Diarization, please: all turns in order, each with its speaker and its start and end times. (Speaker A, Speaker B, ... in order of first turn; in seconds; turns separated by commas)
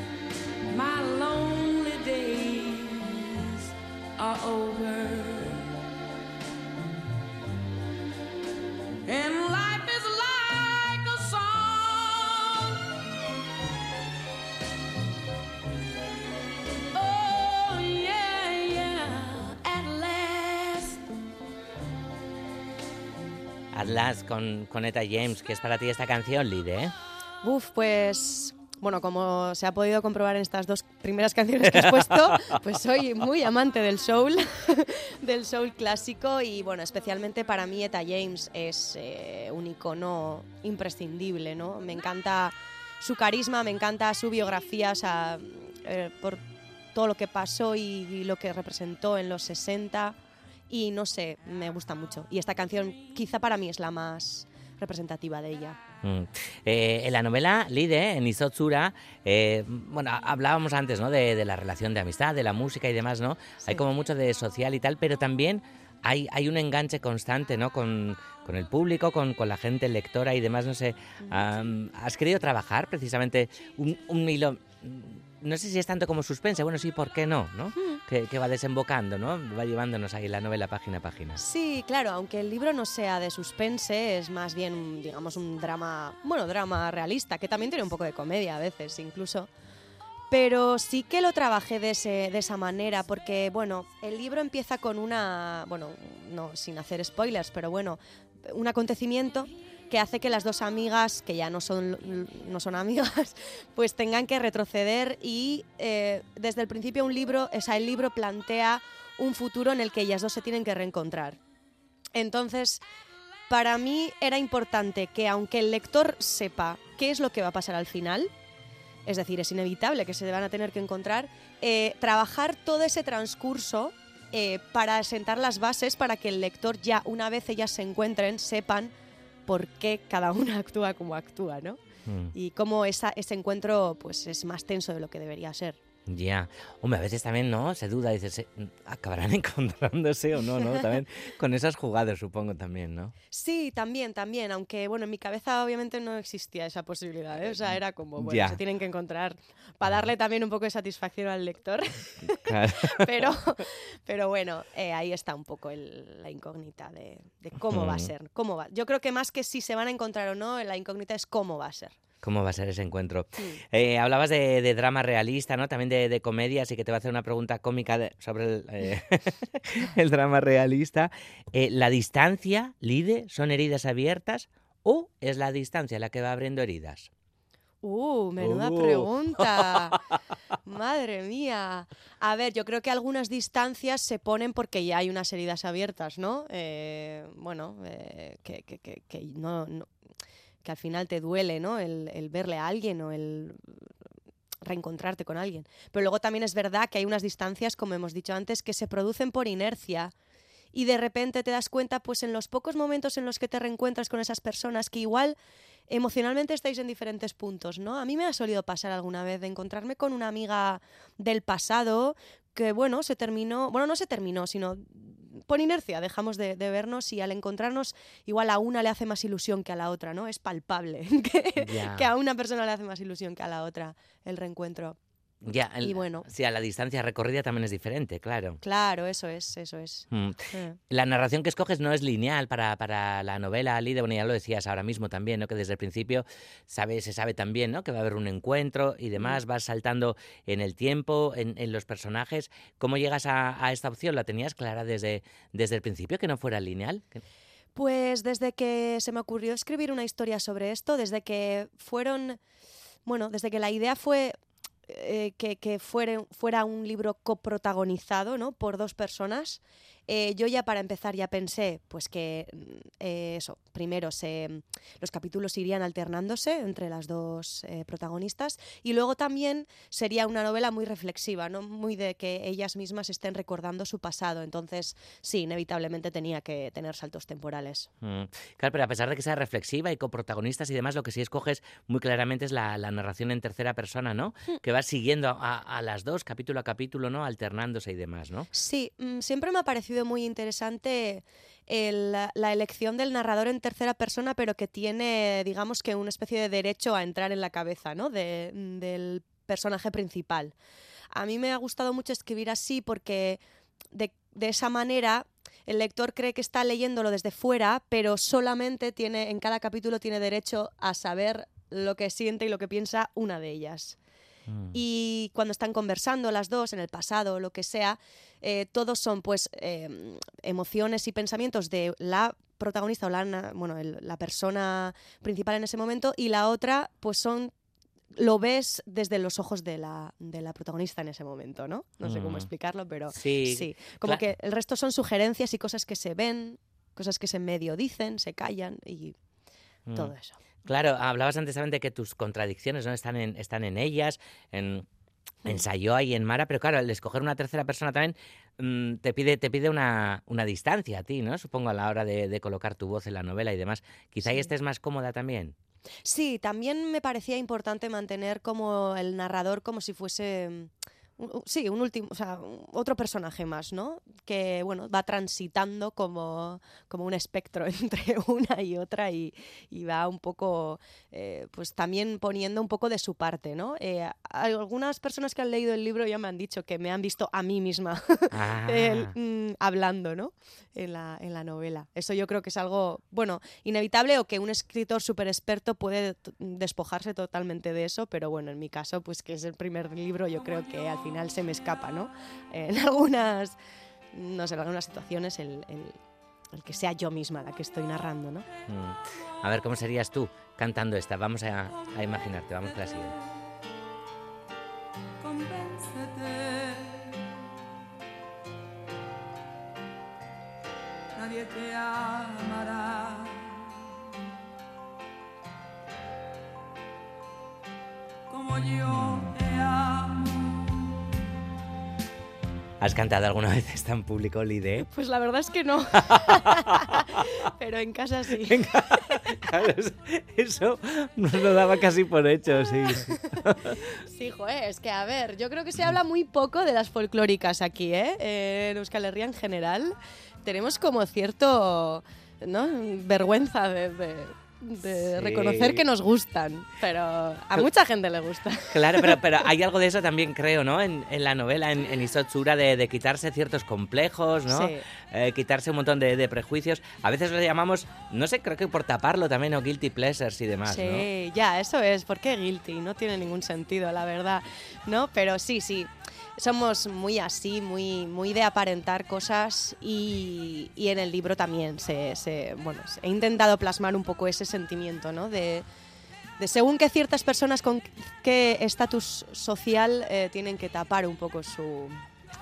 Speaker A: 0.7-5.7, Speaker A: 9.0-13.0, Speaker A: 16.9-21.1, Speaker B: 23.7-26.9, Speaker C: 27.4-50.1, Speaker B: 31.7-32.5, Speaker C: 50.7-55.8, Speaker B: 56.0-81.4, Speaker C: 81.4-89.5, Speaker C: 90.3-111.4, Speaker C: 112.1-112.8, Speaker C: 113.5-118.3, Speaker C: 119.0-128.9, Speaker C: 129.5-131.8, Speaker B: 132.1-132.3, Speaker C: 132.3-135.8, Speaker B: 136.1-143.1, Speaker C: 140.5-140.8, Speaker C: 143.3-162.0, Speaker B: 148.2-148.6, Speaker B: 152.4-153.1, Speaker B: 157.7-158.1, Speaker B: 162.2-177.1, Speaker C: 177.8-180.0, Speaker B: 178.4-179.9, Speaker C: 180.7-189.9, Speaker C: 190.6-193.8, Speaker C: 194.6-200.1, Speaker C: 200.7-205.4, Speaker C: 205.9-225.0, Speaker B: 221.6-222.1, Speaker B: 225.4-228.6, Speaker C: 225.8-226.3, Speaker C: 228.6-230.8, Speaker B: 230.1-247.2, Speaker C: 247.8-252.4, Speaker C: 253.1-254.3, Speaker C: 254.9-277.9, Speaker B: 278.0-288.5, Speaker C: 288.5-300.5, Speaker C: 301.1-303.4, Speaker C: 303.9-314.0, Speaker B: 314.5-314.8, Speaker C: 314.7-327.5, Speaker C: 328.1-339.1, Speaker B: 332.0-332.5, Speaker B: 333.1-334.2, Speaker C: 339.9-340.4, Speaker B: 340.6-344.9, Speaker B: 345.4-355.5, Speaker C: 356.0-393.6, Speaker B: 378.3-379.1, Speaker C: 394.1-396.0, Speaker C: 396.5-398.5, Speaker B: 398.7-403.2, Speaker A: 405.3-407.1, Speaker A: 411.1-413.6, Speaker A: 418.3-420.7, Speaker B: 422.8-424.9, Speaker C: 424.8-429.3, Speaker B: 426.1-427.2, Speaker B: 428.5-433.8, Speaker C: 434.0-449.3, Speaker B: 445.1-445.8, Speaker B: 448.7-461.1, Speaker C: 454.5-454.8, Speaker C: 460.6-475.7, Speaker C: 476.4-482.0